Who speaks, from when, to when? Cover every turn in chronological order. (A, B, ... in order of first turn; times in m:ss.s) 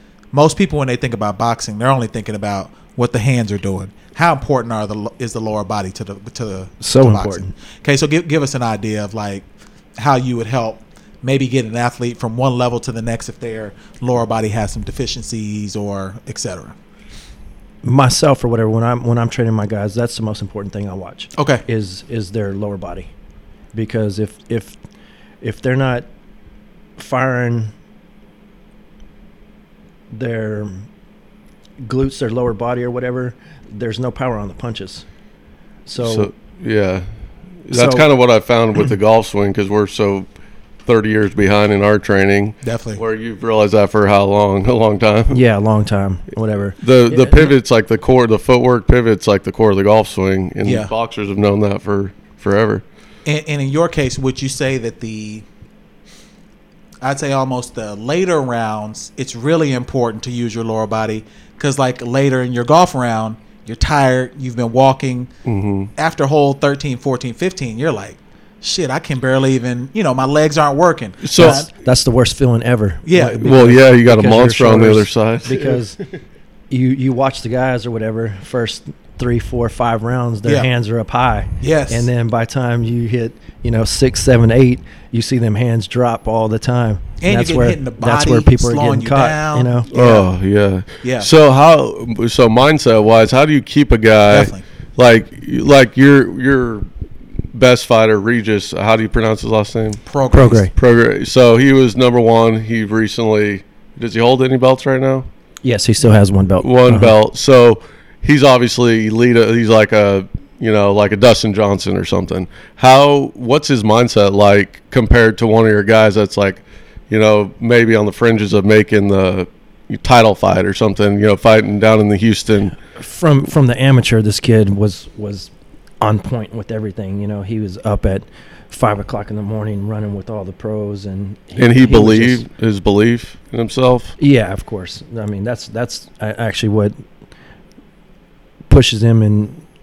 0:00.3-0:09.4 A
0:06.8-0:07.5 B
0:10.0-0:16.7 A
0:17.8-0:23.1 B
0:21.4-0:21.6 A
0:23.7-0:24.8 B
0:25.4-0:26.1 B
0:27.0-0:27.7 B
0:30.1-0:30.9 B
0:31.8-0:35.0 B
0:35.8-0:36.3 B
0:36.0-0:37.0 C
0:37.6-0:40.3 C
0:37.7-0:38.0 A
0:40.8-0:45.4 C
0:42.6-0:43.0 A
0:45.3-0:47.5 B
0:46.8-0:52.8 C
0:50.6-0:50.9 A
0:53.2-0:55.4 A
0:57.0-1:05.3 A
1:05.4-1:05.9 C
1:06.0-1:11.7 A
1:11.2-1:11.6 C
1:11.4-1:16.0 B
1:13.0-1:13.5 A
1:13.4-1:15.8 C
1:16.7-1:29.9 B
1:21.6-1:22.1 A
1:27.2-1:30.3 A
1:29.9-1:36.9 C
1:31.0-1:31.3 A
1:34.3-1:34.6 A
1:37.5-1:40.0 C
1:40.0-1:40.6 A
1:40.3-1:40.7 B
1:40.7-1:45.3 C
1:45.6-1:47.2 B
1:46.6-2:02.8 C
2:02.9-2:12.4 B
2:11.6-2:14.1 C
2:14.2-2:17.0 B
2:18.7-2:19.6 B